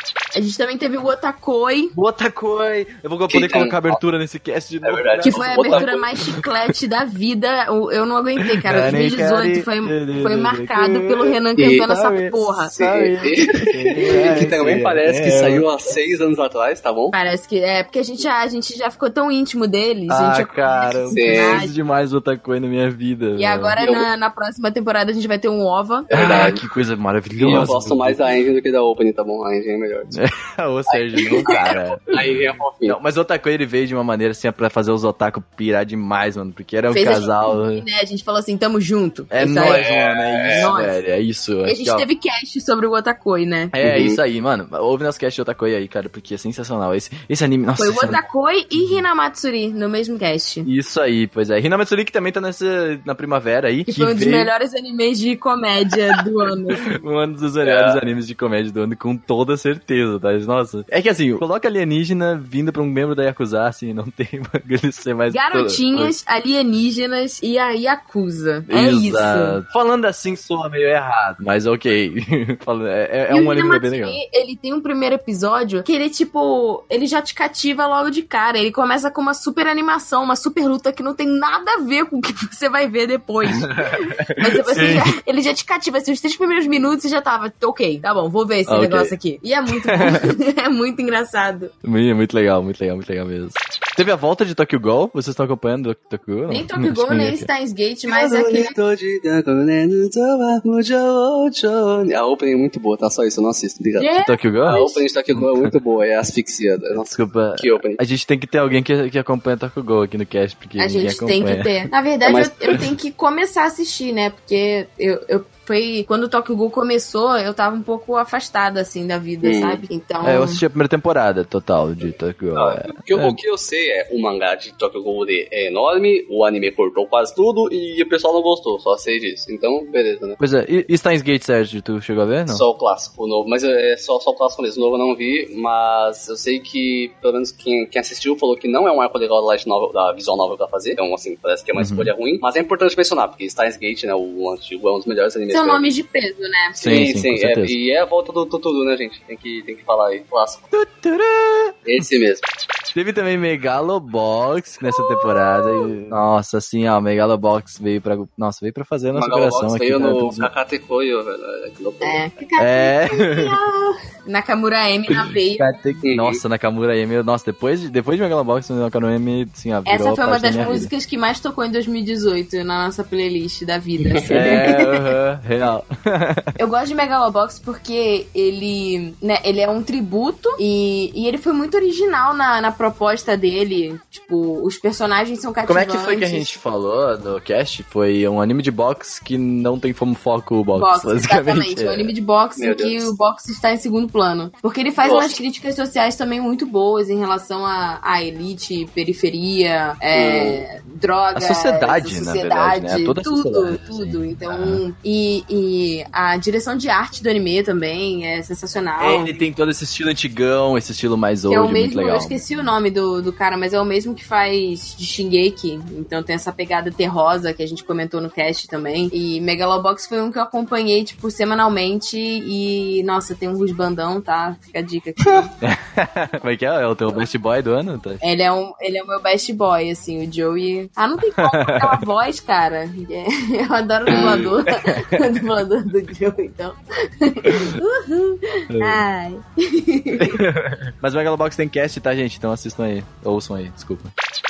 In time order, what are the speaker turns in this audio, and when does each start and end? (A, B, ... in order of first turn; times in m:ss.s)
0:00.4-0:02.0 A
0:01.9-0:06.4 B
0:03.3-0:04.0 C
0:04.8-0:06.0 C
0:05.2-0:12.7 A
0:08.6-0:15.6 B
0:11.6-0:11.9 C
0:12.7-0:17.1 C
0:17.1-0:21.7 A
0:20.1-0:23.8 B
0:21.1-0:21.6 C
0:23.4-0:26.1 A
0:23.8-0:24.1 C
0:26.1-0:26.6 C
0:26.1-0:28.4 B
0:27.4-0:30.2 C
0:30.1-0:37.8 B
0:30.9-0:31.6 C
0:32.1-0:33.0 C
0:36.9-0:39.9 A
0:39.3-0:42.1 B
0:39.6-0:40.7 C
0:40.5-0:41.0 A
0:41.6-0:43.7 A
0:43.7-0:48.2 B
0:43.8-0:44.2 C
0:47.8-0:50.7 A
0:48.8-0:49.0 B
0:50.6-0:54.5 B
0:53.9-0:56.9 A
0:56.8-1:06.1 B
0:57.6-0:58.0 C
1:05.3-1:09.6 A
1:08.7-1:14.2 B
1:13.3-1:31.7 A
1:23.6-1:25.1 B
1:28.7-1:29.1 B
1:29.7-1:30.3 B
1:31.8-1:37.5 B
1:36.5-1:38.8 A
1:38.1-1:44.1 C
1:44.0-1:45.0 A
1:44.2-1:44.8 B
1:44.6-1:48.0 C
1:45.4-1:45.7 B
1:46.9-1:51.8 B
1:50.8-2:00.6 A
1:52.2-1:52.8 C
1:59.4-1:59.8 C
2:00.2-2:03.4 B
2:02.6-2:10.4 C
2:10.4-2:12.6 B
2:12.5-2:25.9 C
2:21.8-2:22.1 B
2:25.5-2:26.8 A
2:26.8-2:27.8 B
2:26.8-2:30.7 C
2:30.7-2:31.8 B
2:31.8-2:32.4 C
2:32.9-2:40.5 B
2:34.8-2:35.9 A
2:39.1-2:42.2 C
2:42.0-2:46.0 A
2:42.6-2:43.6 B
2:45.1-2:50.9 B
2:46.0-2:46.4 C
2:49.9-2:55.1 A
2:54.0-2:54.6 C
2:54.3-2:56.5 B
2:56.6-3:06.5 A
3:05.7-3:12.1 B
3:10.7-3:29.3 A
3:12.6-3:13.1 C
3:15.0-3:15.4 C
3:20.1-3:20.6 C
3:21.4-3:24.8 B
3:29.0-3:32.4 B
3:31.5-3:45.5 A
3:45.6-3:48.2 B
3:48.2-4:00.4 A
3:51.4-3:52.0 B
3:54.1-3:54.6 C
3:54.7-3:55.2 B
3:57.5-3:57.8 B
3:58.7-3:59.0 B
4:00.2-4:04.1 B